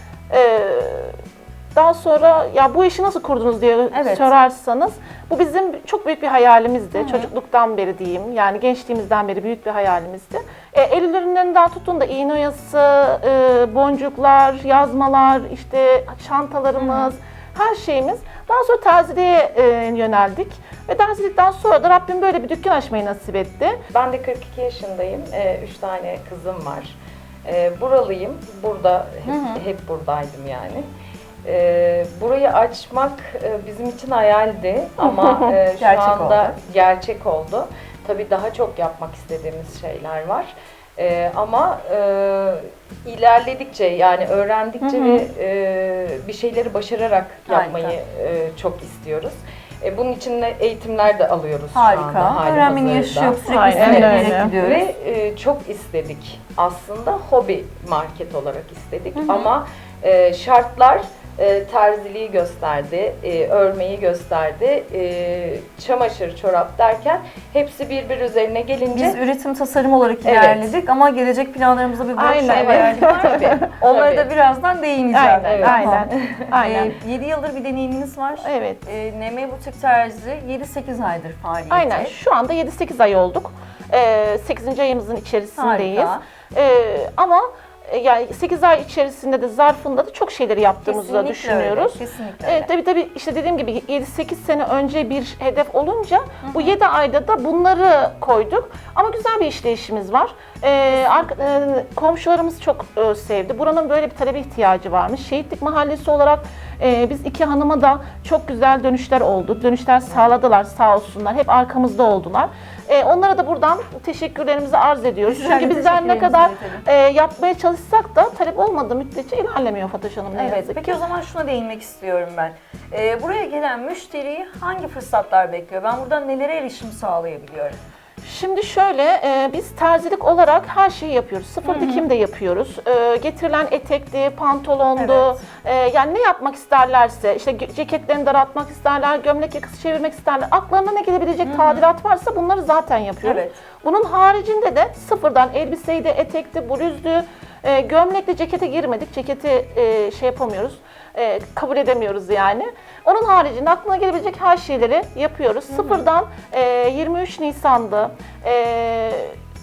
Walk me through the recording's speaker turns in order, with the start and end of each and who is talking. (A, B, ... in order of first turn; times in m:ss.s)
0:00.3-0:01.2 A
0:01.8-0:23.8 A
0:03.9-0:04.3 B
0:07.0-0:07.3 B
0:16.8-0:17.1 B
0:23.9-0:30.9 C
0:29.3-0:29.6 B
0:31.4-1:09.2 C
0:35.8-0:36.5 B
0:44.8-0:45.3 B
0:47.5-0:48.0 B
0:51.7-0:54.9 B
0:53.5-0:54.5 A
0:59.2-0:59.5 B
1:08.9-1:22.1 B
1:10.2-1:10.7 C
1:12.2-1:13.7 A
1:12.5-1:14.3 C
1:15.1-1:17.0 A
1:15.5-1:16.5 C
1:18.4-1:18.8 A
1:21.7-2:01.0 A
1:25.6-1:26.2 B
1:30.8-1:32.7 B
1:36.4-1:36.8 B
1:55.3-1:56.9 B
2:00.4-2:07.8 B
2:08.2-2:39.4 A
2:11.6-2:12.0 B
2:15.0-2:15.4 B
2:21.4-2:21.8 B
2:23.2-2:23.6 B
2:35.7-2:36.0 B